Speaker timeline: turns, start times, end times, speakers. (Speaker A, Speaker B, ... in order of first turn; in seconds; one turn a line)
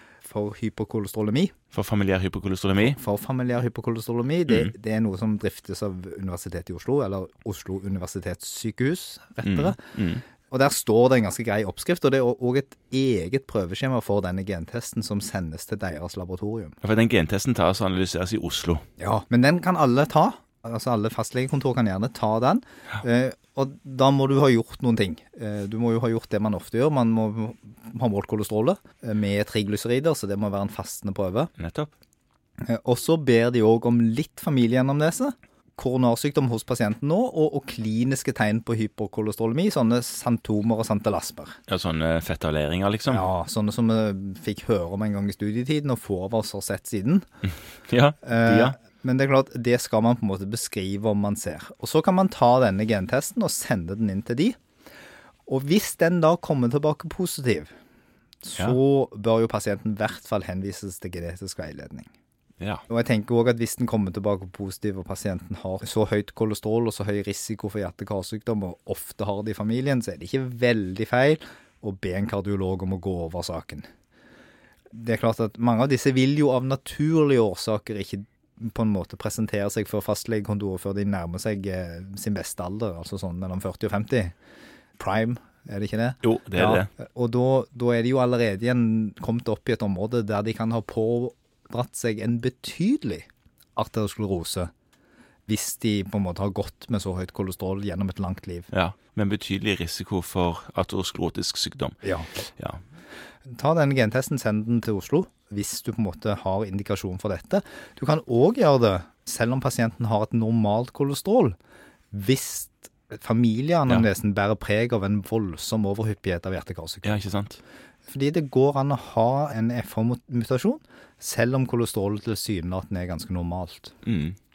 Speaker A: 0.2-1.5
Speaker B: 1.7-3.0
Speaker A: 2.8-9.8
Speaker B: 9.4-10.2
Speaker A: 10.5-16.8
Speaker B: 16.8-18.8
Speaker A: 19.0-31.5
Speaker B: 31.6-31.9
Speaker A: 32.6-41.6
Speaker B: 41.7-43.2
Speaker A: 43.1-47.3
Speaker B: 47.9-48.8
Speaker A: 48.2-54.5
Speaker A: 55.5-57.7
Speaker A: 58.4-62.1
Speaker A: 62.9-73.8
Speaker A: 74.9-84.3
Speaker A: 85.0-94.7
Speaker B: 86.2-86.9
Speaker A: 95.5-98.7
Speaker B: 98.7-102.0
Speaker A: 102.0-102.3
Speaker A: 103.5-111.5
Speaker A: 112.1-117.2
Speaker B: 117.0-117.6
Speaker A: 118.1-123.9
Speaker B: 124.0-124.4